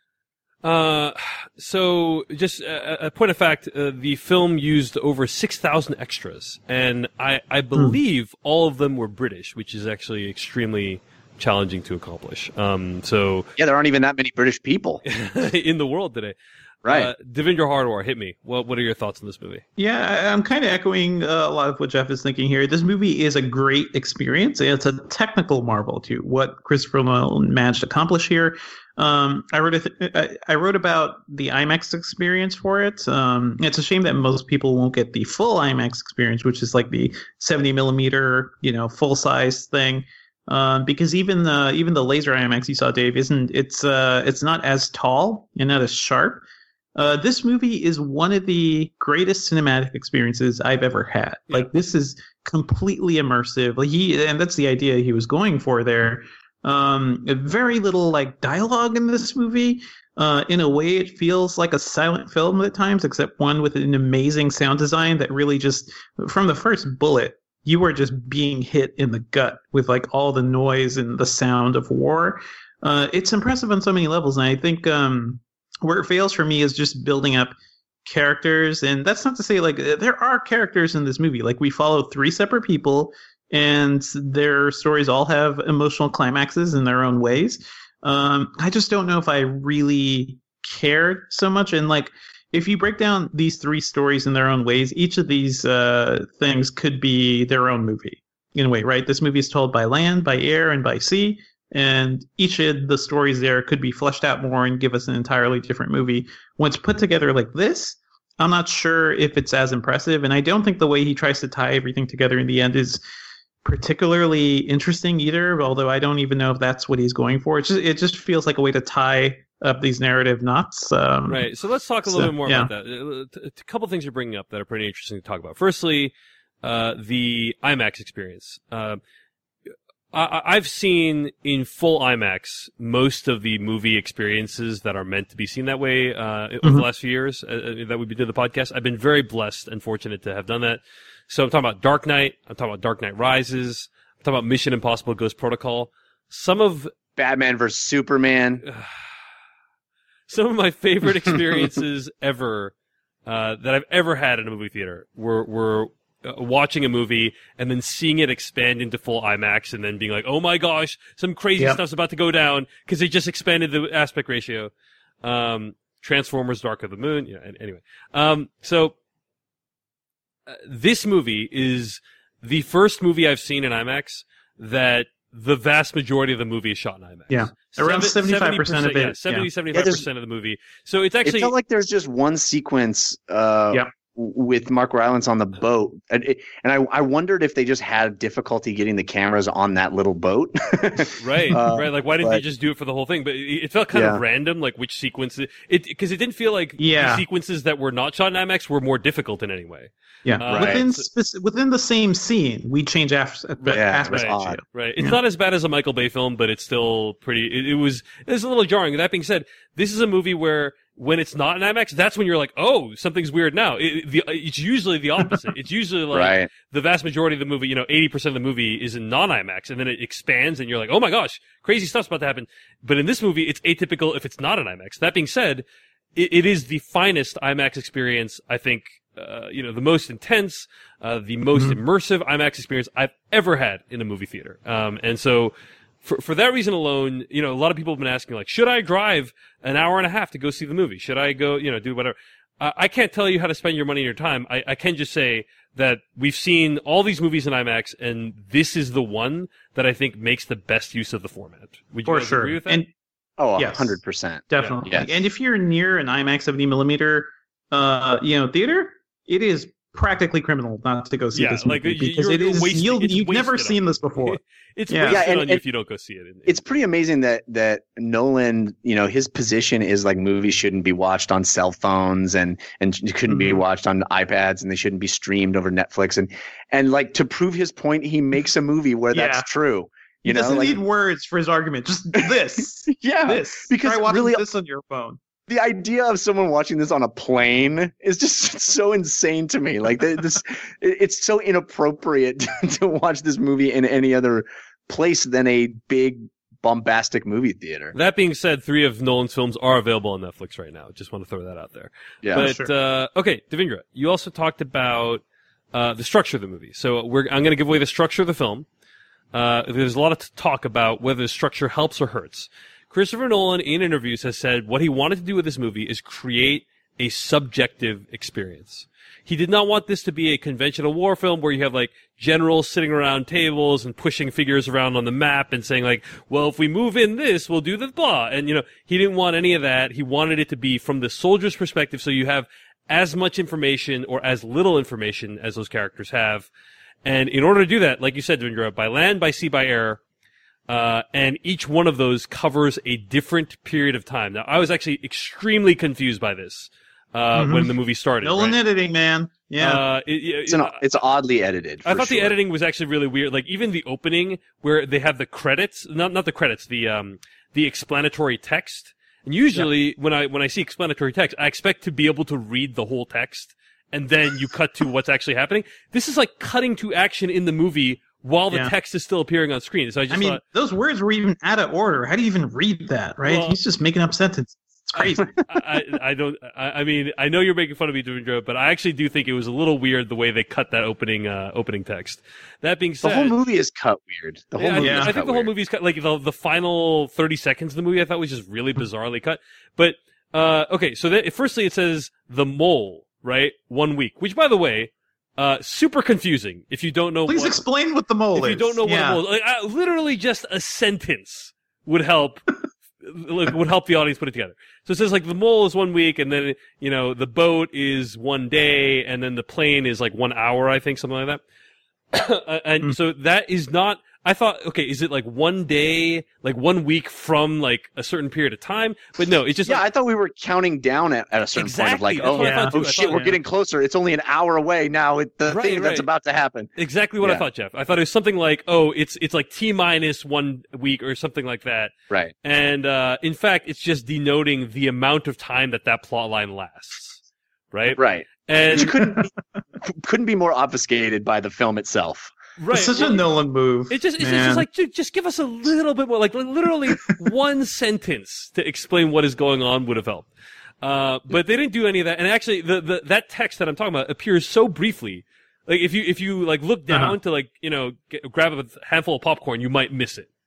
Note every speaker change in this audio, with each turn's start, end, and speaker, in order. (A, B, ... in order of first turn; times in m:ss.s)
0:00.6-0:13.5 A
0:13.6-0:15.0 B
0:15.0-0:16.3 A
0:16.8-0:17.1 B
0:16.9-0:19.6 A
0:19.8-0:46.4 C
0:47.0-1:17.5 C
1:18.0-1:53.0 C
1:53.6-2:01.5 C
2:01.3-2:09.0 A
2:02.1-2:02.7 C
2:10.1-2:26.9 A
2:27.2-2:28.6 B
2:28.6-2:29.0 A
2:30.3-2:32.7 A
2:33.2-2:44.7 A
2:45.2-2:48.9 A
2:50.5-3:01.5 A
2:57.3-2:59.5 C
2:59.7-3:00.0 B
3:01.2-3:12.4 B
3:11.2-3:21.1 A
3:13.9-3:14.2 B
3:16.8-3:17.2 C
3:20.2-3:25.2 C
3:20.5-3:20.8 B
3:23.6-3:45.6 A
3:23.7-3:24.6 B
3:36.1-3:36.5 B
3:46.2-4:12.8 A
3:51.5-3:51.8 C
4:12.1-4:12.9 C
4:13.4-4:15.1 B
4:13.6-4:14.0 C
4:14.5-4:24.4 C
4:21.3-4:26.6 A
4:24.9-4:25.2 C
4:25.1-4:25.6 B
4:26.4-4:40.8 B
4:33.3-4:33.6 C
4:39.1-4:39.5 C
4:40.3-4:45.2 C
4:42.9-4:44.4 B
4:45.5-4:57.9 B
4:57.9-5:08.7 A
5:02.2-5:02.5 B
5:02.3-5:02.7 C
5:09.3-5:36.5 A
5:37.0-5:40.0 A
5:40.7-5:48.6 A
5:47.3-5:49.8 C
5:49.6-5:50.8 A
5:50.5-5:52.4 B
5:51.8-6:10.4 A
6:10.1-6:15.6 C
6:13.2-6:13.6 A
6:14.9-6:23.3 A
6:23.0-6:25.5 B
6:24.6-6:37.6 A
6:24.8-6:25.1 C
6:37.3-6:39.2 C
6:38.4-6:51.4 A
6:52.1-6:59.8 A
6:59.6-7:06.7 B
7:01.6-7:03.3 A
7:02.4-7:03.3 C
7:05.5-7:06.1 A
7:06.8-7:11.9 A
7:12.4-7:19.0 A
7:18.0-7:22.3 B
7:22.6-7:23.2 A
7:22.7-7:24.6 C
7:23.9-7:30.3 A
7:30.8-7:40.3 A
7:36.9-7:37.2 C